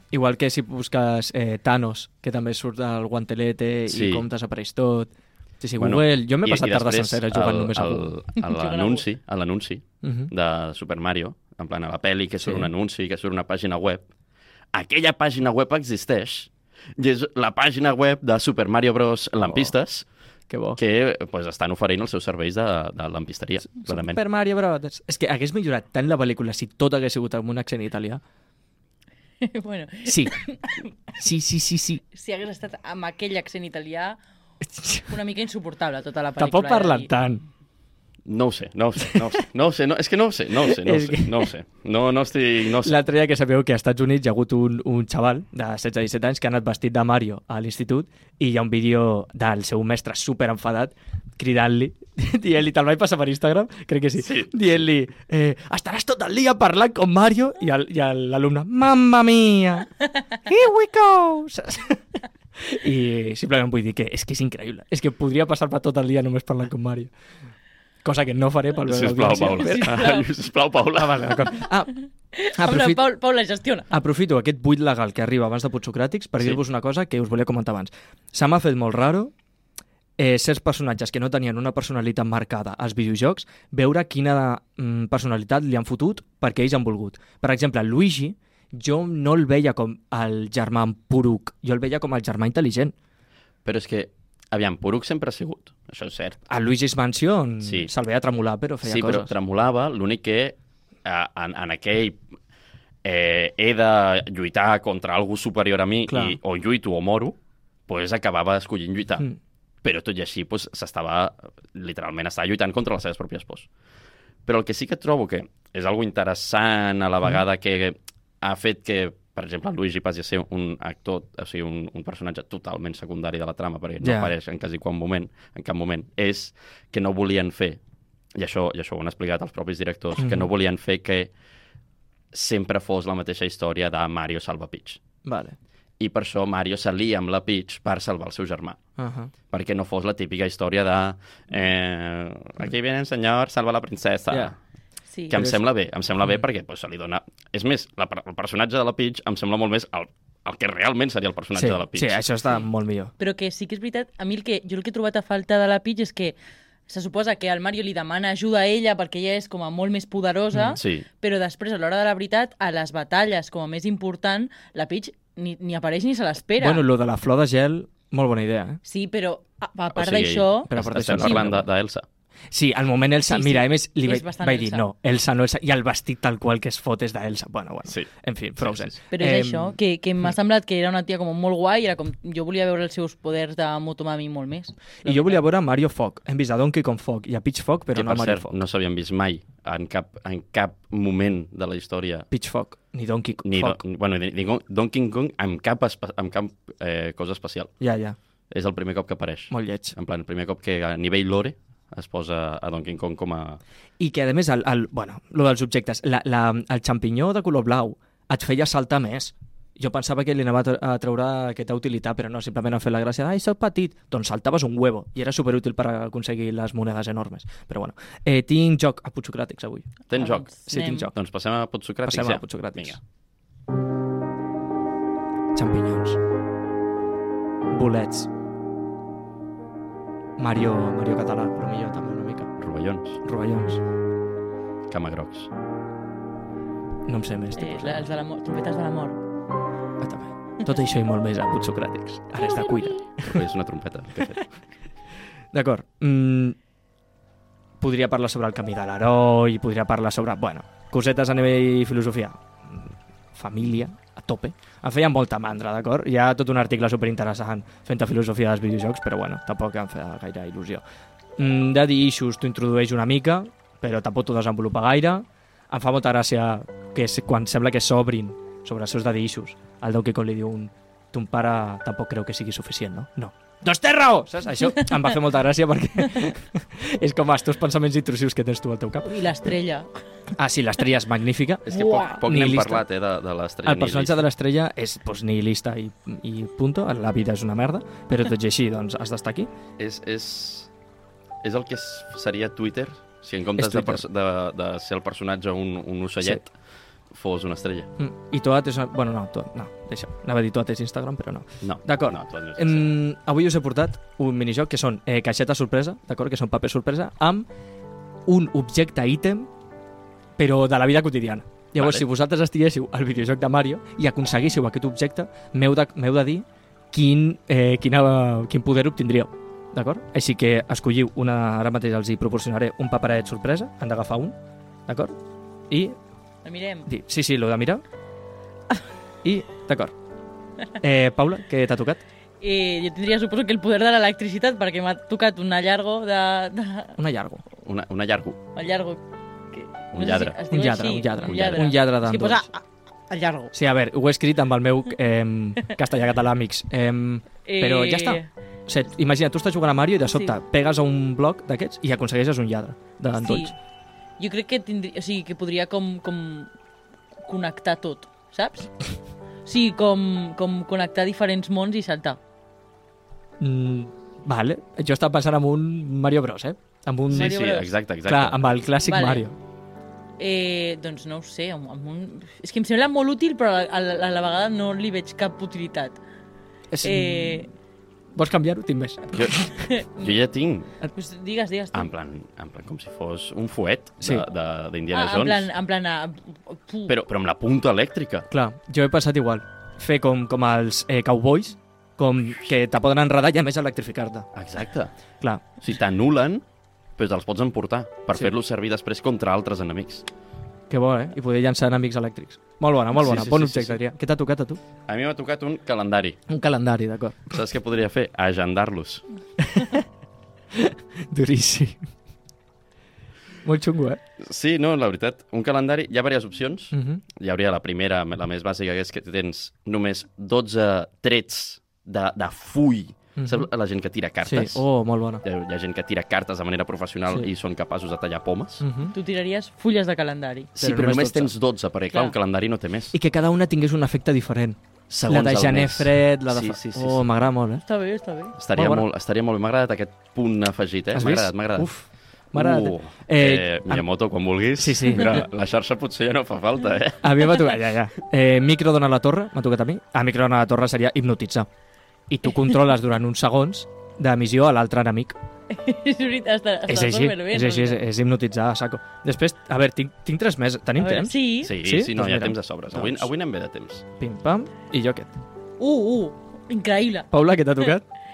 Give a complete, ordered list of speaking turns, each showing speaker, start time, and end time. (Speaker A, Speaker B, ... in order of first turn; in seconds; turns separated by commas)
Speaker A: 0.1-8.1, Speaker B: 3.9-4.2, Speaker B: 5.8-14.1, Speaker C: 8.4-9.1, Speaker A: 10.0-10.3, Speaker A: 12.4-12.7, Speaker B: 14.7-20.1, Speaker A: 19.4-19.7, Speaker A: 20.5-20.8, Speaker B: 20.8-24.2, Speaker A: 23.9-28.2, Speaker C: 29.4-30.9, Speaker A: 30.1-30.3, Speaker A: 31.2-32.0, Speaker C: 32.1-34.2, Speaker A: 34.6-35.1, Speaker C: 35.1-37.1, Speaker A: 36.4-37.4, Speaker B: 38.3-43.0, Speaker A: 40.6-41.5, Speaker A: 42.8-62.0, Speaker B: 54.2-54.5, Speaker A: 62.6-67.1, Speaker A: 68.0-70.1, Speaker B: 68.8-71.5, Speaker C: 69.5-70.3, Speaker A: 71.0-71.9, Speaker C: 72.3-73.9, Speaker A: 72.5-73.0, Speaker A: 73.9-79.3, Speaker A: 80.2-92.9, Speaker B: 93.6-96.4, Speaker A: 96.5-99.3, Speaker B: 97.6-97.9, Speaker B: 98.8-102.2, Speaker B: 103.0-107.3, Speaker A: 106.1-106.4, Speaker B: 107.9-109.3, Speaker B: 109.8-113.7, Speaker B: 114.5-127.8, Speaker A: 124.0-124.3, Speaker B: 128.3-131.3, Speaker A: 130.2-130.5, Speaker B: 132.3-135.0, Speaker A: 135.2-135.6, Speaker B: 136.0-138.8, Speaker A: 139.0-139.3, Speaker B: 139.5-144.6, Speaker C: 145.1-145.4, Speaker B: 145.3-152.2, Speaker A: 145.3-145.6, Speaker A: 151.5-153.1, Speaker C: 153.2-156.3, Speaker C: 156.9-166.8, Speaker A: 160.5-160.8, Speaker B: 160.7-161.1, Speaker A: 166.6-168.8, Speaker C: 168.8-171.4, Speaker B: 169.9-172.1, Speaker A: 170.7-171.7, Speaker A: 172.5-179.8, Speaker C: 173.3-174.9, Speaker B: 177.9-178.9, Speaker C: 179.1-185.4, Speaker A: 185.0-188.5, Speaker B: 187.9-192.3, Speaker A: 192.3-193.8, Speaker B: 193.4-197.7, Speaker A: 197.8-198.2, Speaker B: 198.5-203.6, Speaker A: 199.5-199.9, Speaker A: 204.0-219.9, Speaker B: 220.1-220.5, Speaker C: 220.1-221.1, Speaker A: 220.7-221.1, Speaker B: 221.1-223.0, Speaker A: 222.1-223.0, Speaker A: 225.5-226.2, Speaker A: 227.7-228.3, Speaker A: 230.4-232.5, Speaker B: 232.6-233.2, Speaker A: 233.2-233.8, Speaker B: 234.9-235.5, Speaker A: 237.1-238.1, Speaker C: 237.6-239.2, Speaker A: 240.0-243.4, Speaker B: 243.2-244.5, Speaker A: 245.5-246.6, Speaker A: 247.8-260.8, Speaker A: 261.4-279.1, Speaker C: 279.0-279.9, Speaker A: 280.3-282.8, Speaker B: 281.7-284.2, Speaker C: 281.7-282.2, Speaker A: 283.6-289.5, Speaker B: 289.8-290.7, Speaker B: 291.4-296.5, Speaker A: 293.6-294.0, Speaker B: 297.1-297.9, Speaker A: 298.0-307.4, Speaker B: 301.6-302.9, Speaker A: 308.2-309.5, Speaker A: 310.4-325.2, Speaker B: 311.8-312.0, Speaker A: 325.7-325.9, Speaker C: 326.4-326.9, Speaker A: 326.9-327.8, Speaker A: 329.2-329.9, Speaker A: 330.8-332.0, Speaker C: 332.4-337.0, Speaker A: 337.0-337.4, Speaker B: 337.6-338.4, Speaker C: 338.5-339.0, Speaker C: 339.5-343.5, Speaker B: 339.9-340.4, Speaker A: 340.5-342.5, Speaker B: 341.2-341.7, Speaker A: 343.5-353.5, Speaker C: 347.4-348.3, Speaker C: 353.1-353.5, Speaker C: 354.2-356.5, Speaker C: 357.3-358.9, Speaker C: 359.4-362.2, Speaker A: 363.4-367.4, Speaker B: 367.1-368.6, Speaker C: 367.1-367.7, Speaker A: 368.1-369.4, Speaker C: 368.8-369.2, Speaker C: 370.2-376.0, Speaker A: 376.7-377.4, Speaker C: 376.8-377.5, Speaker A: 378.1-379.5, Speaker B: 379.1-379.4, Speaker C: 379.6-380.1, Speaker B: 379.9-380.7, Speaker C: 380.9-381.9, Speaker B: 381.7-385.5, Speaker C: 384.9-386.9, Speaker B: 386.9-388.3, Speaker A: 388.3-394.3, Speaker B: 394.3-394.9, Speaker B: 395.6-396.4, Speaker B: 397.0-400.1, Speaker A: 400.7-404.6, Speaker B: 402.9-403.8, Speaker B: 404.9-406.2, Speaker A: 406.3-407.3, Speaker B: 407.3-409.0, Speaker A: 409.4-409.9, Speaker A: 410.5-411.9, Speaker A: 413.4-414.0, Speaker B: 414.2-424.6, Speaker A: 416.7-417.0, Speaker A: 423.2-423.5, Speaker A: 424.2-425.2, Speaker B: 425.2-428.6, Speaker A: 428.6-428.9, Speaker C: 428.9-430.5, Speaker B: 430.6-432.9, Speaker A: 430.6-431.3, Speaker A: 432.9-437.6, Speaker B: 434.9-437.0, Speaker C: 437.6-438.3, Speaker B: 438.4-441.7, Speaker A: 438.6-438.9, Speaker A: 440.9-443.8, Speaker B: 442.3-447.3, Speaker A: 444.6-445.3, Speaker A: 447.0-451.5, Speaker A: 452.1-455.2, Speaker C: 455.5-457.8, Speaker A: 456.7-463.1, Speaker C: 460.8-461.5, Speaker B: 461.4-463.8, Speaker A: 464.0-465.1, Speaker C: 465.6-467.1, Speaker A: 467.1-467.8